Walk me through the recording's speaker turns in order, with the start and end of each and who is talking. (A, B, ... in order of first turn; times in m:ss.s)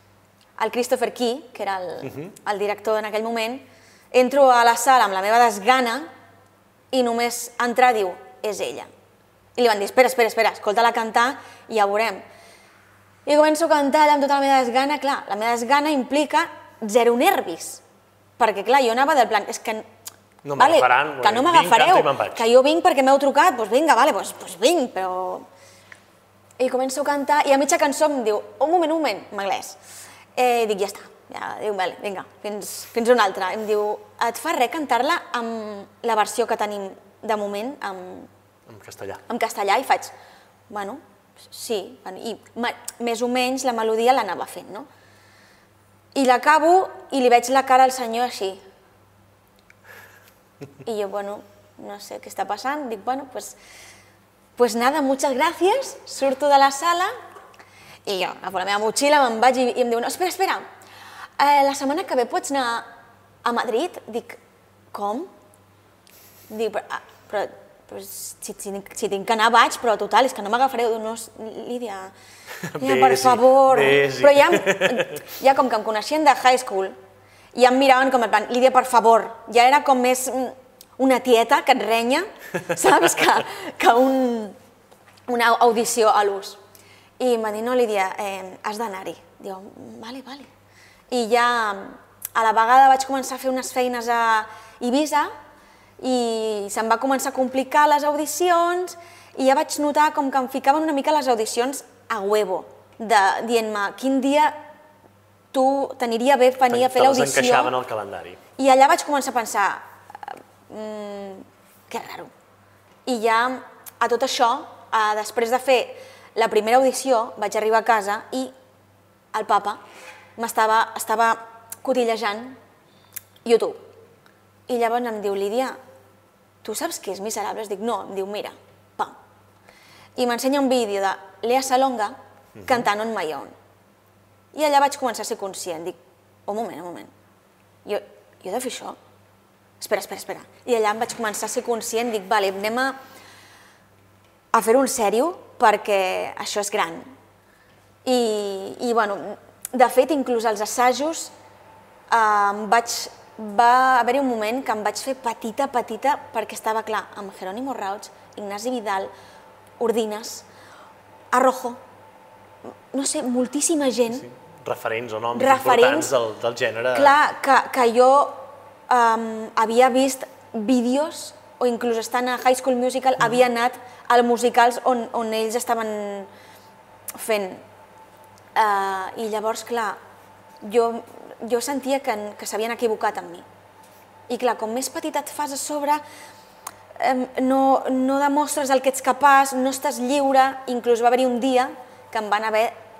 0:00.6-0:06.1 A
0:02.0-0:02.3 B
0:06.9-0:08.9 A
0:09.6-0:12.2 A
0:13.2-0:17.8 A
0:18.4-0:19.9 A
0:20.4-0:22.5 B
0:20.6-0:25.4 A
0:26.6-0:29.8 A
0:30.3-0:38.3 A
0:38.7-0:39.2 B
0:39.3-0:40.1 A
0:40.7-0:44.9 A
0:46.1-0:48.6 A
0:50.8-0:53.6 A
0:54.6-0:57.1 A
0:58.0-1:00.6 A
1:01.4-1:02.9 A
1:03.4-1:04.4 A
1:04.9-1:05.3 A
1:06.5-1:12.1 A
1:12.6-1:15.3 B
1:12.8-1:17.0 A
1:17.5-1:24.6 A
1:25.3-1:26.6 A
1:27.2-1:30.5 A
1:31.1-1:35.3 A
1:36.0-1:44.6 A
1:45.5-1:47.7 A
1:46.7-1:48.4 B
1:48.6-1:52.3 A
1:53.0-1:58.5 A
1:59.3-1:59.8 A
2:00.4-2:02.6 A
2:03.4-2:03.8 A
2:04.7-2:05.8 A
2:06.6-2:09.2 A
2:10.2-2:13.5 A
2:12.6-2:12.9 B
2:14.5-2:17.1 A
2:17.8-2:19.0 A
2:19.8-2:23.0 A
2:24.5-2:27.1 A
2:28.0-2:31.3 A
2:32.1-2:39.1 A
2:39.8-2:40.5 A
2:41.3-2:41.8 A
2:42.9-2:44.2 A
2:44.1-2:47.2 B
2:45.3-2:46.1 A
2:46.9-2:56.3 A
2:57.2-2:57.6 A
2:58.5-3:00.0 A
3:00.6-3:03.4 A
3:04.3-3:06.0 A
3:07.0-3:12.8 A